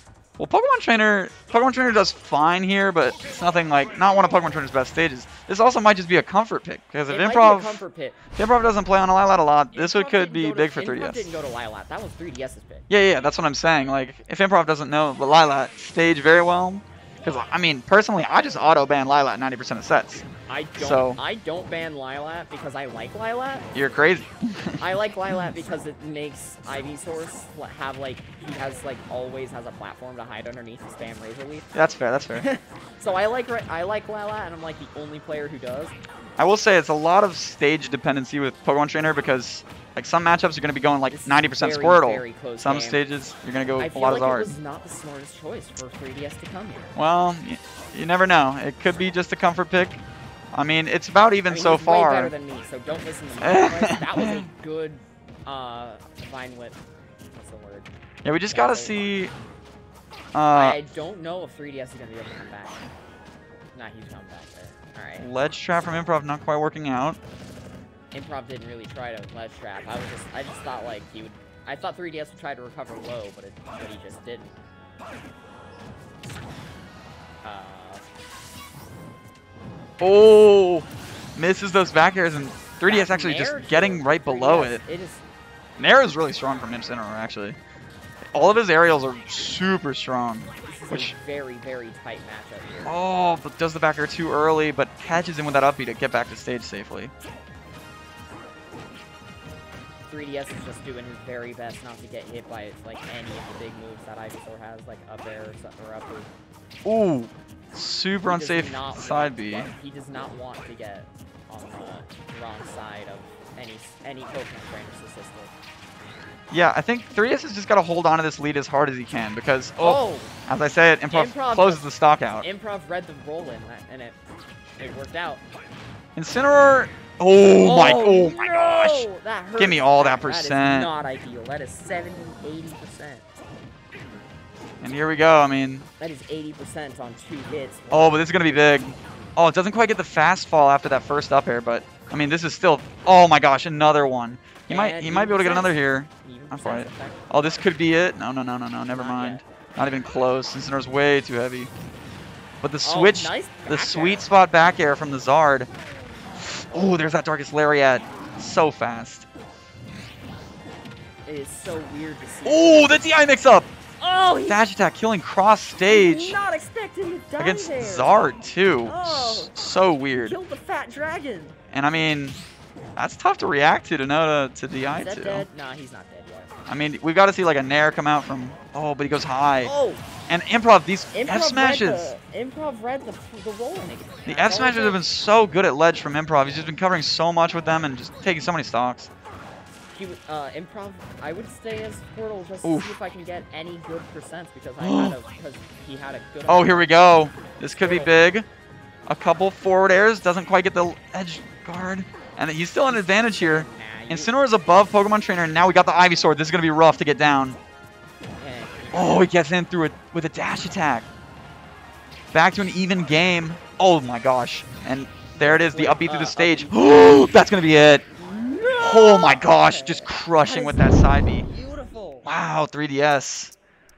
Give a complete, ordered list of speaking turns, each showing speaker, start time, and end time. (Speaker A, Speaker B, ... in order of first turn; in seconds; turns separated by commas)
Speaker A: 0.4-7.8, Speaker B: 7.1-8.2, Speaker A: 8.3-11.3, Speaker B: 9.7-12.8, Speaker A: 12.9-20.2, Speaker B: 17.2-17.5, Speaker B: 20.5-24.0, Speaker A: 20.8-21.2, Speaker A: 23.7-25.5, Speaker B: 24.8-31.7, Speaker A: 31.7-32.5, Speaker B: 32.3-35.9, Speaker A: 36.4-44.6, Speaker B: 41.1-43.0, Speaker B: 43.8-46.9, Speaker A: 46.9-50.0, Speaker A: 50.5-52.3, Speaker B: 51.5-56.8, Speaker A: 53.4-54.5, Speaker B: 57.3-57.9, Speaker A: 58.2-59.3, Speaker B: 58.5-59.1, Speaker A: 60.3-60.8, Speaker B: 60.5-62.9, Speaker B: 63.7-65.3, Speaker A: 65.2-67.2, Speaker B: 68.1-74.5, Speaker B: 77.4-78.0, Speaker A: 80.0-84.8, Speaker B: 82.8-85.2, Speaker A: 85.8-87.6, Speaker A: 88.3-91.1, Speaker B: 90.6-93.0, Speaker A: 92.8-97.1, Speaker B: 100.1-106.3, Speaker A: 106.8-109.7, Speaker B: 108.2-115.5, Speaker A: 116.5-122.5, Speaker B: 119.8-120.3, Speaker B: 121.1-124.2, Speaker B: 124.8-125.4, Speaker A: 126.2-130.9, Speaker B: 127.5-133.2, Speaker A: 134.8-135.9, Speaker B: 136.0-138.5, Speaker A: 137.9-151.7, Speaker B: 144.7-147.3, Speaker B: 148.9-149.4, Speaker A: 152.6-155.7, Speaker B: 152.8-154.3, Speaker A: 156.4-159.3, Speaker B: 156.7-157.0, Speaker B: 161.2-163.1, Speaker A: 162.4-163.7, Speaker B: 164.0-164.6, Speaker A: 164.4-166.4, Speaker B: 165.9-168.2, Speaker A: 167.4-170.4, Speaker B: 168.8-169.5, Speaker B: 170.1-171.6, Speaker A: 171.7-172.4, Speaker A: 172.9-175.5, Speaker B: 174.8-176.6, Speaker A: 176.7-179.7, Speaker B: 179.6-180.0, Speaker A: 180.3-182.1, Speaker B: 181.1-185.0, Speaker A: 184.2-189.1, Speaker B: 189.9-197.0, Speaker A: 192.6-192.9, Speaker A: 194.8-195.2, Speaker A: 196.5-198.5, Speaker B: 197.7-198.2, Speaker A: 199.1-207.6, Speaker B: 202.9-204.3, Speaker B: 208.4-209.3, Speaker A: 208.9-211.1, Speaker A: 212.3-218.0, Speaker B: 215.4-216.8, Speaker B: 218.1-222.3, Speaker A: 218.8-221.5, Speaker A: 222.2-223.5